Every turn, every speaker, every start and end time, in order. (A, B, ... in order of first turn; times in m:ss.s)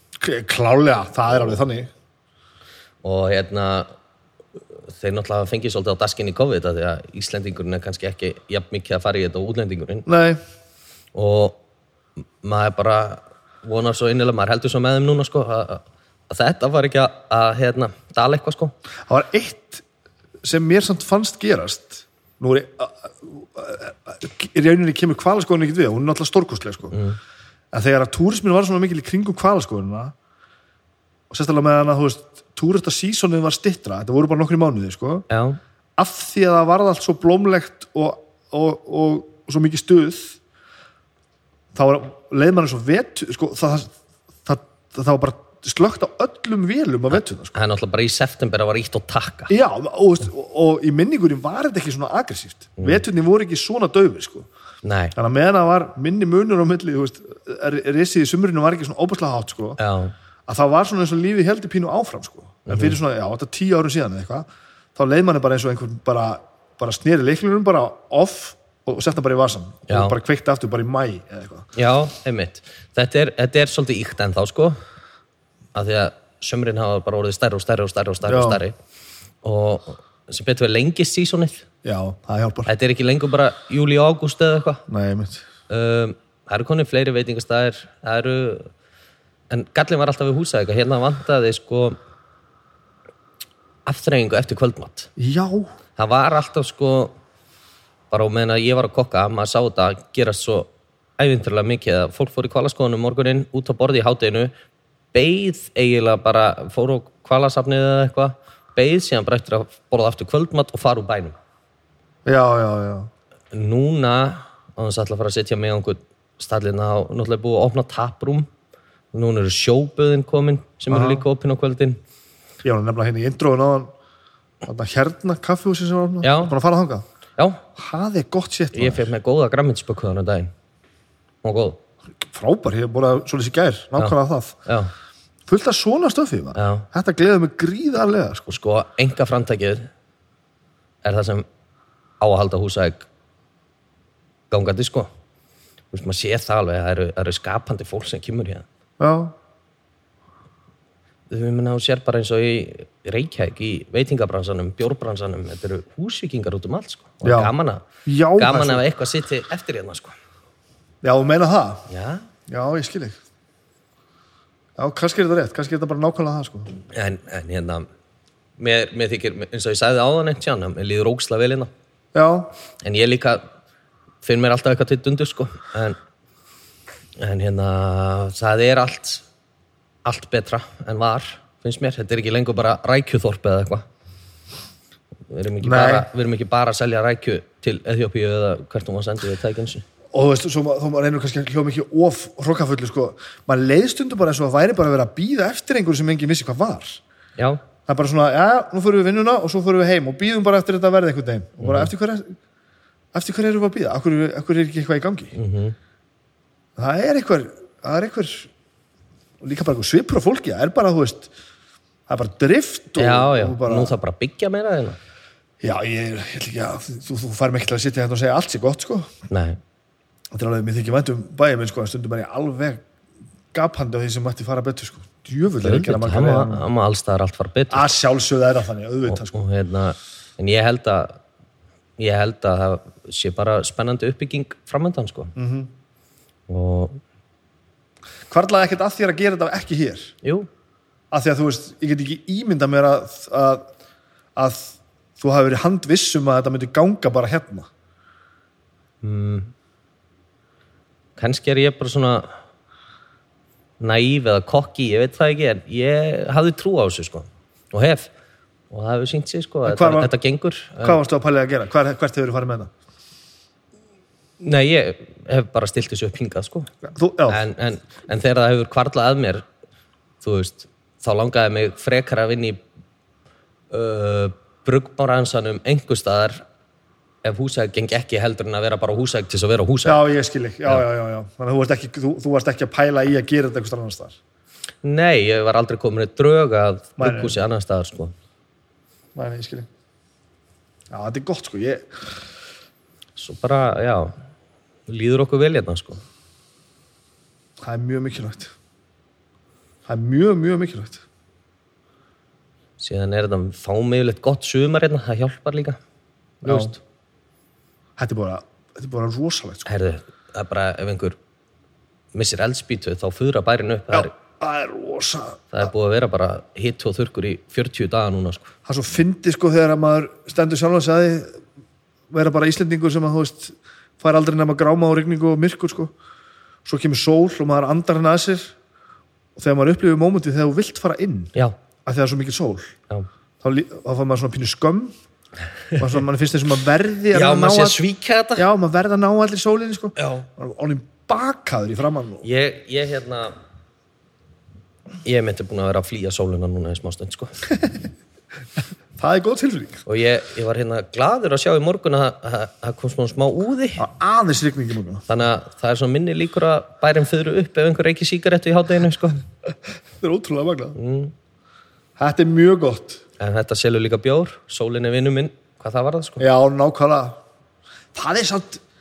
0:00.2-0:01.9 A
0:03.0-0:03.9 B
0:04.9-0:10.0 B
0:10.0-0:10.4 A
0:11.1-0:11.6 B
0:12.4-0:18.7 B
0:19.1-0:19.8 A
0:20.4-0:26.9 A
0:26.9-0:27.2 B
0:27.7-0:30.1 A
0:31.3-0:35.2 A
0:35.3-0:35.6 B
0:36.0-0:40.4 A
0:41.7-0:43.9 A
0:44.4-0:47.6 A
0:47.1-0:49.5 B
0:49.5-0:54.5 A
0:52.8-0:53.0 B
0:54.8-0:55.1 B
0:55.2-0:59.8 A
0:59.8-1:00.1 B
1:00.5-1:11.7 A
1:02.7-1:03.0 B
1:09.9-1:10.2 B
1:11.8-1:14.8 B
1:15.7-1:18.8 B
1:18.3-1:18.6 A
1:19.4-1:21.6 B
1:21.8-1:22.7 A
1:22.6-1:24.8 B
1:24.9-1:25.4 A
1:25.7-1:28.7 B
1:29.5-1:32.0 B
1:33.8-1:35.1 B
1:35.2-1:35.7 A
1:36.0-1:37.1 B
1:38.1-1:44.5 B
1:45.1-1:51.3 B
1:52.2-1:53.1 A
1:53.5-1:58.5 B
1:59.1-2:02.0 B
2:00.9-2:01.2 A
2:02.6-2:03.9 A
2:04.6-2:07.0 A
2:06.2-2:06.5 B
2:07.4-2:07.6 B
2:07.8-2:09.1 A
2:08.7-2:10.5 B
2:11.4-2:11.8 B
2:12.2-2:14.6 A
2:14.6-2:14.9 B
2:15.5-2:18.5 A
2:16.5-2:16.9 B
2:18.5-2:19.9 B
2:21.0-2:21.4 B
2:22.2-2:23.1 B
2:24.5-2:25.1 B
2:25.9-2:28.6 B
2:29.0-2:29.3 A
2:31.3-2:40.1 B
2:37.2-2:37.5 A
2:38.0-2:38.8 A
2:41.0-2:41.9 A
2:41.9-2:42.3 B
2:42.5-2:43.2 A
2:44.8-2:46.7 A
2:46.9-2:47.9 B
2:48.6-2:51.7 B
2:52.1-2:52.5 A
2:52.8-2:53.4 B
2:54.2-2:56.0 B
2:57.2-2:59.2 B
3:00.0-3:03.8 B
3:05.3-3:09.8 B
3:05.6-3:06.1 A
3:10.1-3:17.0 A
3:17.4-3:17.6 B
3:17.9-3:22.4 A
3:21.6-3:21.9 B
3:23.1-3:25.3 A
3:25.3-3:25.8 B
3:26.8-3:28.5 A
3:29.4-3:31.3 A
3:32.1-3:33.9 A
3:33.0-3:35.0 B
3:35.6-3:39.1 A
3:39.3-3:39.6 B
3:40.3-3:42.8 A
3:43.5-3:46.6 A
3:45.6-3:48.0 B
3:47.7-3:49.4 A
3:49.1-3:51.2 B
3:52.0-3:55.3 B
3:55.4-3:55.7 A
3:56.5-3:57.0 B
3:58.3-4:00.1 A
4:00.2-4:00.5 B
4:01.1-4:03.7 A
4:04.4-4:07.7 A
4:09.0-4:09.5 B
4:11.2-4:12.3 B
4:13.8-4:18.1 B
4:18.7-4:21.0 B
4:19.6-4:20.1 A
4:20.8-4:22.7 A
4:24.4-4:26.7 B
4:26.8-4:27.4 A
4:27.3-4:29.4 B
4:30.2-4:32.6 B
4:33.7-4:36.4 B
4:37.2-4:40.0 B
4:39.8-4:44.2 A
4:44.8-4:48.1 B
4:47.0-4:47.4 A
4:49.1-4:49.7 A
4:50.9-4:52.1 A
4:53.2-4:54.1 B
4:54.9-4:56.0 B
4:57.6-4:58.5 A
4:59.9-5:01.0 A
5:02.8-5:05.8 B
5:06.4-5:06.8 B
5:06.4-5:06.7 A
5:08.0-5:09.7 A
5:09.6-5:11.2 B
5:12.1-5:14.1 B
5:13.9-5:15.7 A
5:15.5-5:18.5 B
5:18.6-5:21.4 A
5:22.1-5:25.9 A
5:26.6-5:28.5 A
5:29.4-5:31.3 A
5:31.8-5:32.7 A
5:33.4-5:34.9 A
5:35.8-5:37.8 A
5:37.1-5:38.4 B
5:38.4-5:42.2 A
5:40.0-5:40.2 B
5:42.2-5:43.3 B
5:45.0-5:47.3 B
5:49.0-5:49.8 A
5:49.8-5:53.9 B
5:53.8-5:55.0 A
5:55.1-5:59.2 B
6:00.0-6:00.8 A
6:00.8-6:01.1 B
6:02.0-6:03.0 A
6:03.2-6:06.2 B
6:06.2-6:07.2 A
6:07.9-6:08.6 A